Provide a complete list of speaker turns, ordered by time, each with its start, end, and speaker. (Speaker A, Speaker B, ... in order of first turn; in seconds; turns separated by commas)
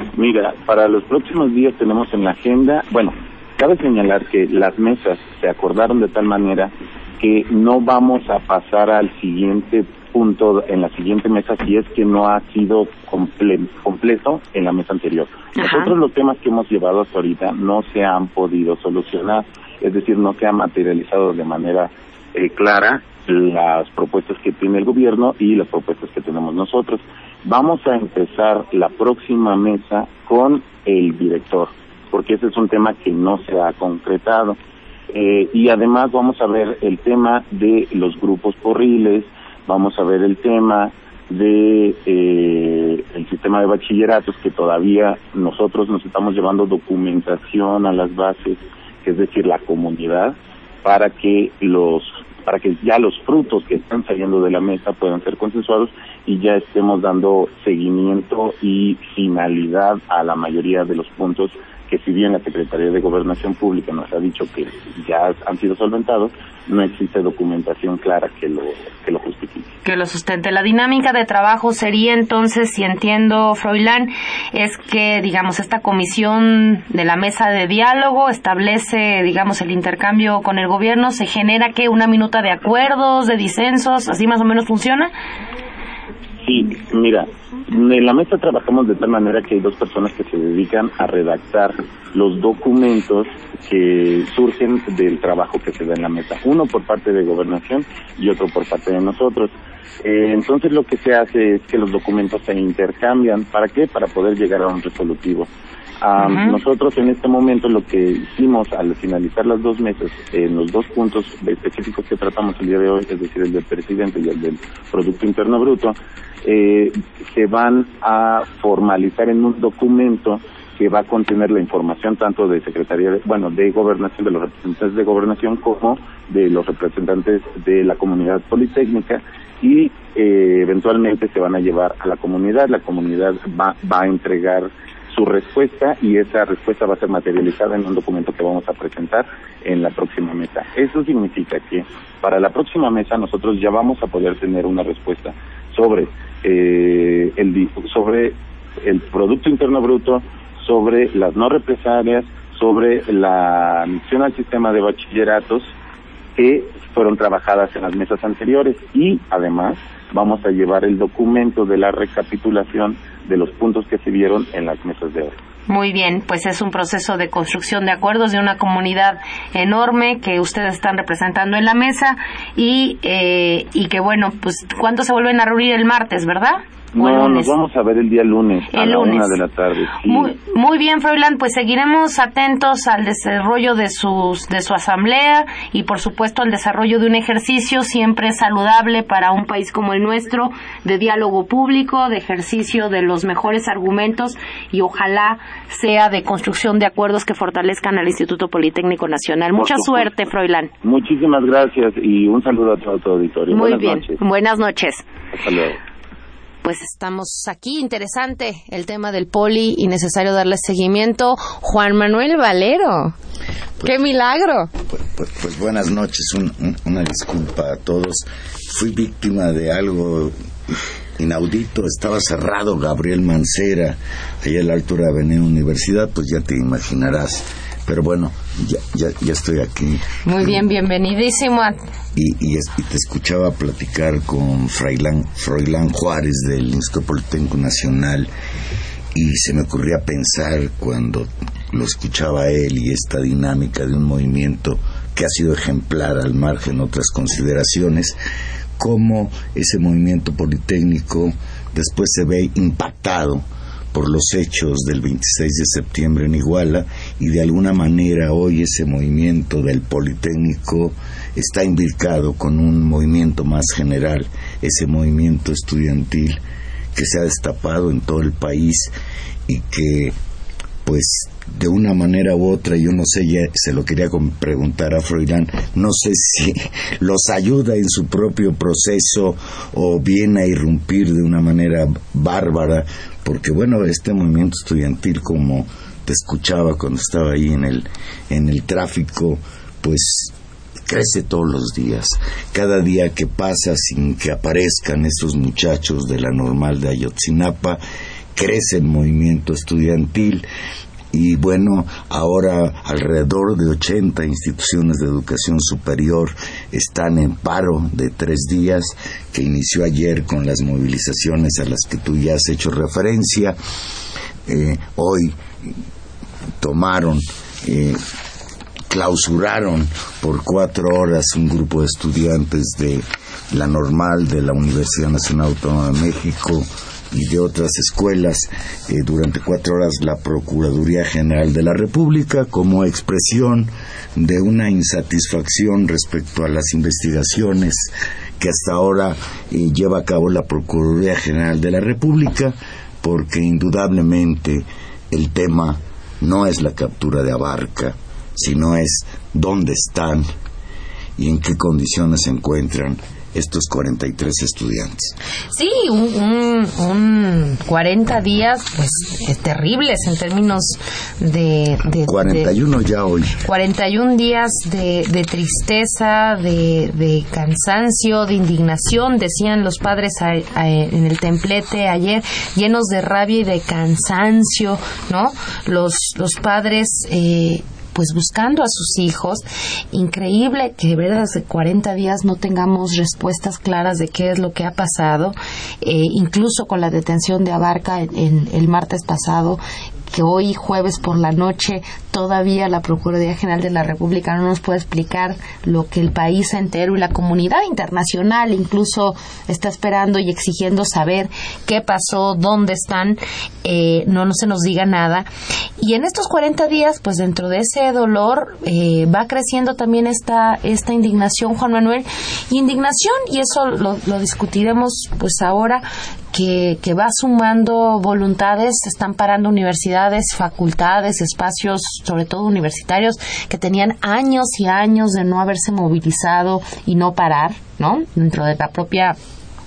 Speaker A: 0.1-34.6, Speaker B: 15.6-15.9, Speaker A: 35.1-69.7, Speaker B: 69.8-85.1, Speaker A: 86.4-99.5, Speaker A: 100.0-105.5, Speaker A: 106.0-155.7, Speaker B: 106.2-106.6, Speaker A: 156.3-165.3, Speaker B: 165.7-177.5, Speaker A: 176.9-180.3, Speaker B: 178.7-179.4, Speaker B: 180.0-200.7, Speaker A: 199.6-200.1, Speaker A: 200.8-204.2, Speaker B: 203.5-205.0, Speaker A: 205.3-205.8, Speaker B: 206.6-213.1, Speaker B: 213.8-214.7, Speaker C: 214.9-220.3, Speaker C: 221.2-230.5, Speaker B: 230.2-231.8, Speaker C: 232.1-238.3, Speaker C: 239.1-248.2, Speaker C: 248.8-266.4, Speaker C: 266.9-268.9, Speaker C: 269.5-270.1, Speaker C: 270.8-290.3, Speaker C: 290.9-297.8, Speaker C: 298.3-300.4, Speaker C: 301.1-313.6, Speaker C: 314.4-315.4, Speaker C: 316.6-318.0, Speaker C: 318.9-350.2, Speaker C: 351.2-355.1, Speaker B: 355.5-362.5, Speaker C: 362.0-363.4, Speaker B: 363.4-405.3, Speaker B: 405.8-429.1